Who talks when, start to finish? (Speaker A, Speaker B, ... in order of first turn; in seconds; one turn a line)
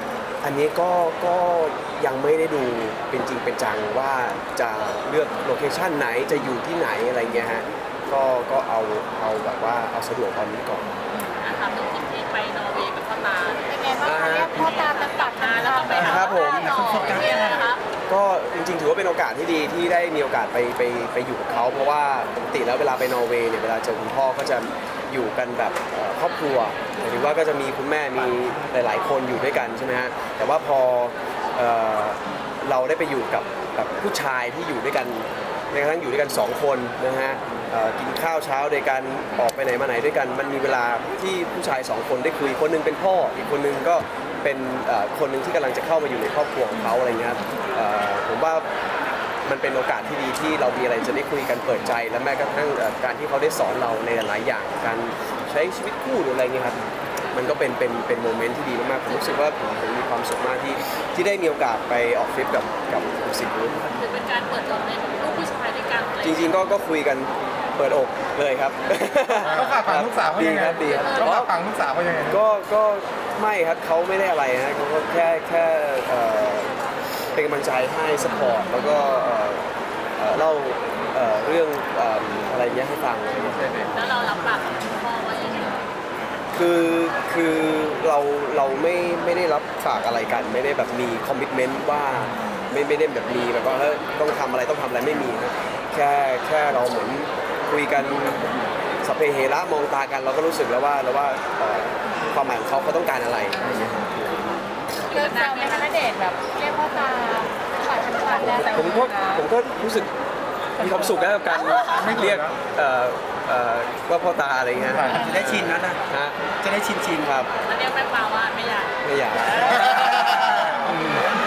Speaker A: 0.4-11.0
Speaker B: 11.2-13.7
Speaker C: 13.7-16.1
Speaker A: 14.0-14.7
Speaker B: 14.5-17.8
Speaker A: 15.9-17.2
Speaker D: 15.9-17.7
Speaker E: 16.8-17.2
Speaker A: 18.1-48.7
Speaker A: 49.5-56.8
Speaker A: 57.3-63.8
Speaker B: 63.9-66.6
Speaker A: 66.2-71.5
Speaker E: 69.5-72.4
Speaker B: 70.9-71.3
Speaker A: 72.3-76.7
Speaker A: 77.3-83.6
Speaker E: 83.5-83.9
Speaker B: 83.9-85.8
Speaker A: 86.5-104.6
Speaker B: 105.1-105.9
Speaker C: 105.1-109.4
Speaker A: 108.4-110.1
Speaker A: 110.8-116.4
Speaker C: 110.8-111.0
Speaker E: 112.0-112.5
Speaker E: 114.9-115.3
Speaker D: 115.1-116.0
Speaker D: 116.6-117.3
Speaker A: 117.2-117.5
Speaker B: 117.6-119.0
Speaker A: 119.0-121.2
Speaker D: 119.9-120.8